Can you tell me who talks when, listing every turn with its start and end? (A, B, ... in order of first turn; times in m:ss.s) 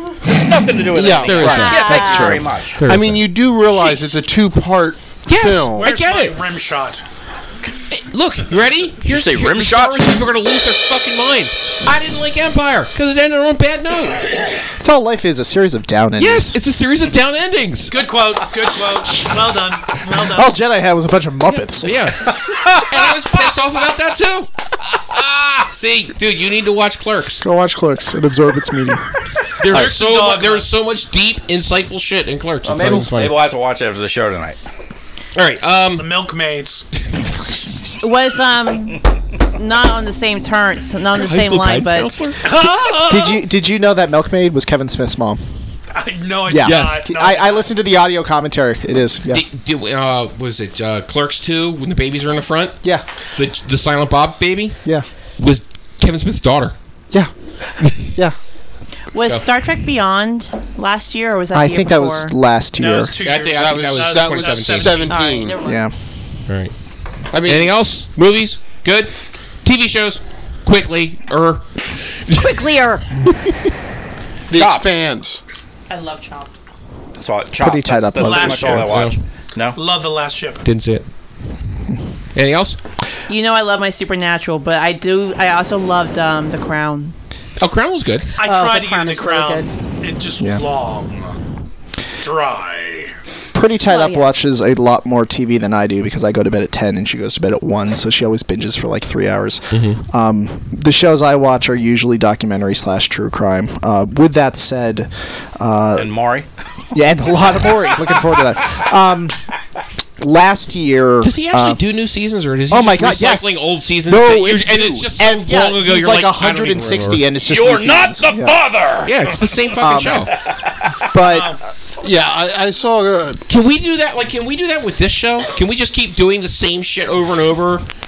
0:00.2-0:02.8 A
0:00.9-0:05.9 B
0:01.2-0:03.3 C
0:01.5-0:02.3 D
0:03.7-0:04.0 E
0:05.3-0:06.4 C
0:05.7-0:07.0 E
0:07.9-0:14.4 C
0:09.0-0:10.2 A
0:14.8-0:16.6 F
0:16.2-0:18.0 C
0:17.9-0:20.5 E
0:20.2-0:22.0 F
0:21.5-0:24.5 C
0:25.6-0:27.4 C
0:27.4-0:29.1 F
0:29.6-0:33.3 C
0:29.7-0:30.7 E
0:32.6-0:34.6 A
0:35.3-0:36.1 C
0:36.0-0:36.8 E
0:38.0-0:39.0 G
0:39.5-0:42.1 G
0:41.1-0:42.4 C
0:42.4-0:43.4 E
0:43.0-0:45.4 F
0:45.9-0:47.7 E
0:46.5-0:49.4 F
0:49.3-0:52.8 C
0:53.4-0:56.7 C
0:57.8-0:58.3 F
0:59.1-1:02.4 G
1:01.5-1:03.1 F
1:02.8-1:05.2 E
1:03.2-1:05.1 C
1:03.5-1:05.6 B
1:05.0-1:05.8 G
1:05.6-1:05.9 F
1:06.5-1:06.7 C
1:07.3-1:07.9 B
1:07.4-1:12.6 C
1:12.3-1:13.0 D
1:14.5-1:15.4 B
1:14.5-1:14.9 A
1:15.9-1:16.5 G
1:17.2-1:19.8 A
1:17.6-1:19.1 F
1:18.2-1:19.0 E
1:18.8-1:19.2 C
1:19.7-1:20.6 E
1:20.6-1:21.0 C
1:22.3-1:22.8 C
1:23.3-1:27.1 G
1:27.6-1:28.3 C
1:28.4-1:31.4 E
1:28.4-1:29.7 D
1:30.4-1:30.6 F
1:32.2-1:33.1 E
1:33.5-1:46.1 F
1:33.9-1:34.3 D
1:39.7-1:40.0 C
1:46.0-1:46.5 A
1:46.9-1:49.4 F
1:50.2-1:51.8 F
1:51.2-1:57.2 C
1:52.7-1:58.6 F
1:57.4-1:59.5 A
1:59.0-2:00.3 C
1:59.8-2:00.3 F
2:01.0-2:01.6 F
2:01.2-2:01.6 E
2:02.0-2:03.4 B
2:03.5-2:07.8 C